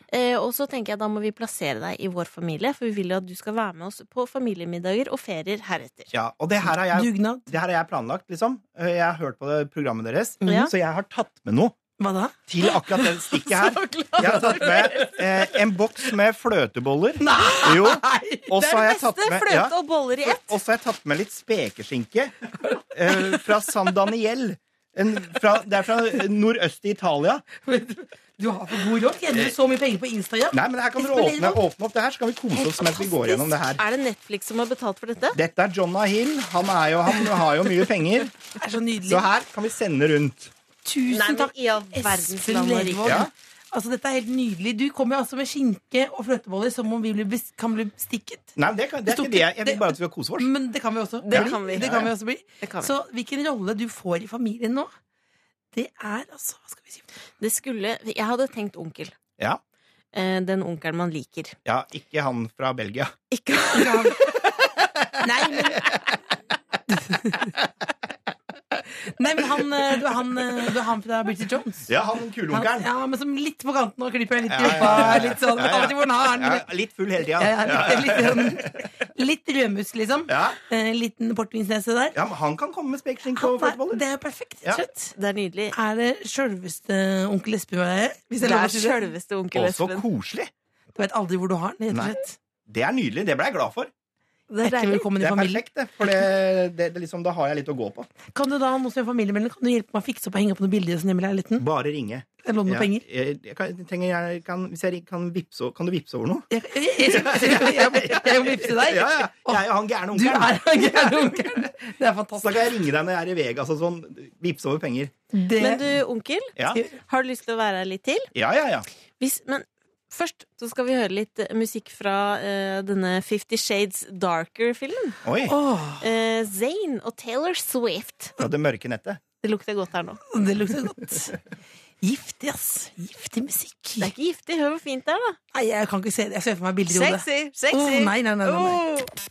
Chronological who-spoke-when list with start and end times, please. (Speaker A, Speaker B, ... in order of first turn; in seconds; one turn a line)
Speaker A: 0.1-6.1
Speaker B: 6.1-11.8
Speaker C: 6.9-7.5
Speaker A: 10.4-10.7
Speaker C: 12.0-12.4
Speaker B: 12.5-27.5
Speaker A: 13.4-15.2
Speaker C: 14.2-15.0
Speaker C: 17.2-18.5
Speaker A: 18.6-20.6
Speaker C: 22.8-23.4
Speaker C: 27.6-31.6
Speaker B: 30.5-33.8
Speaker A: 32.6-35.4
Speaker B: 35.3-38.3
Speaker C: 38.6-39.3
Speaker B: 39.1-40.5
Speaker C: 40.9-48.5
Speaker A: 41.1-43.2
Speaker B: 43.0-43.3
Speaker B: 48.6-50.5
Speaker C: 49.1-54.9
Speaker A: 51.2-51.9
Speaker B: 51.3-52.1
Speaker A: 52.6-52.9
Speaker C: 55.7-57.0
Speaker A: 57.4-59.1
Speaker A: 60.1-61.6
Speaker B: 61.6-63.1
Speaker A: 63.3-64.5
Speaker C: 63.7-64.3
Speaker C: 65.2-65.9
Speaker C: 66.9-67.6
Speaker C: 69.0-71.9
Speaker B: 71.9-72.9
Speaker C: 72.5-76.7
Speaker B: 74.5-78.8
Speaker C: 77.4-82.2
Speaker B: 80.3-80.6
Speaker B: 82.1-84.0
Speaker C: 83.4-85.1
Speaker A: 85.2-85.8
Speaker C: 85.7-89.1
Speaker A: 88.4-90.1
Speaker B: 89.5-90.5
Speaker C: 91.0-92.4
Speaker B: 91.9-92.2
Speaker B: 92.7-93.9
Speaker A: 94.5-95.1
Speaker C: 94.6-95.6
Speaker B: 95.2-98.1
Speaker C: 98.3-101.7
Speaker B: 101.6-106.5
Speaker C: 102.4-103.0
Speaker C: 106.5-112.7
Speaker B: 107.0-111.7
Speaker B: 112.4-115.1
Speaker C: 115.3-115.9
Speaker A: 115.6-118.3
Speaker B: 116.6-116.8
Speaker B: 118.3-118.9
Speaker A: 119.2-125.2
Speaker B: 125.2-125.6
Speaker C: 125.5-126.1
Speaker A: 126.0-128.3
Speaker B: 128.4-129.2
Speaker A: 129.4-130.2
Speaker C: 130.3-131.4
Speaker C: 132.0-134.1
Speaker A: 134.0-135.4
Speaker C: 135.5-138.8
Speaker A: 136.9-139.1